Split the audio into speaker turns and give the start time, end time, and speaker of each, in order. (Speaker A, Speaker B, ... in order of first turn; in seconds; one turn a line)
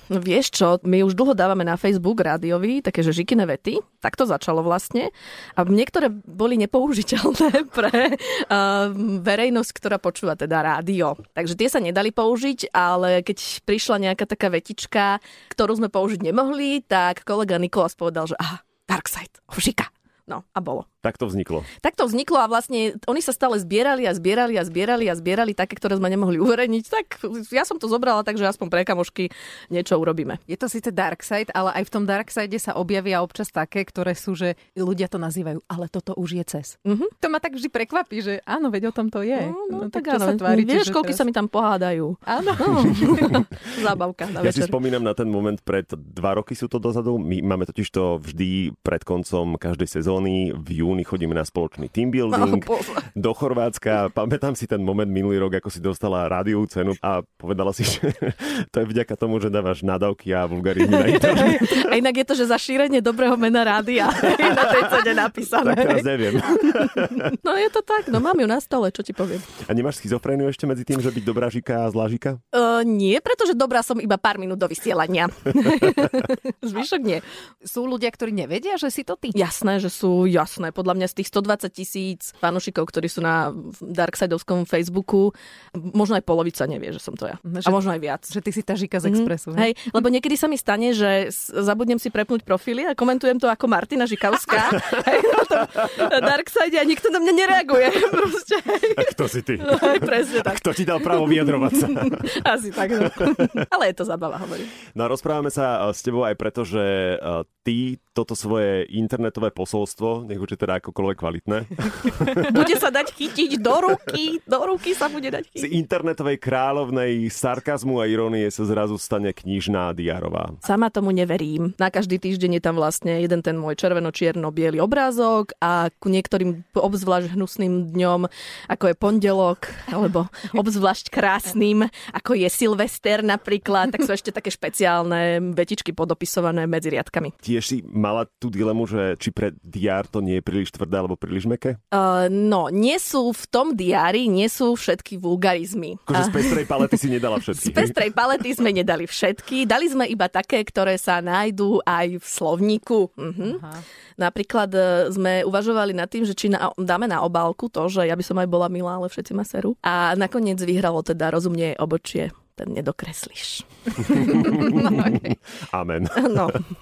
Speaker A: 0.1-20.9
Speaker B: 21.0-21.7
Speaker A: 21.8-30.4
Speaker C: 30.5-41.2
Speaker A: 36.9-37.1
Speaker A: 39.4-44.7
Speaker C: 42.3-43.5
Speaker B: 44.4-61.9
Speaker A: 52.3-53.0
Speaker A: 60.8-69.5
Speaker B: 65.6-67.3
Speaker B: 69.6-72.4
Speaker A: 72.5-77.2
Speaker C: 77.6-79.4
Speaker A: 79.3-88.3
Speaker C: 87.5-87.8
Speaker C: 88.3-89.7
Speaker A: 89.0-104.7
Speaker B: 99.0-102.3
Speaker B: 103.2-103.5
Speaker B: 104.9-112.7
Speaker A: 112.4-115.7
Speaker B: 115.6-120.6
Speaker A: 120.6-137.3
Speaker B: 137.4-141.8
Speaker A: 141.9-147.0
Speaker B: 146.1-148.0
Speaker A: 147.5-164.8
Speaker C: 164.4-165.1
Speaker B: 164.7-166.5
Speaker A: 166.1-166.6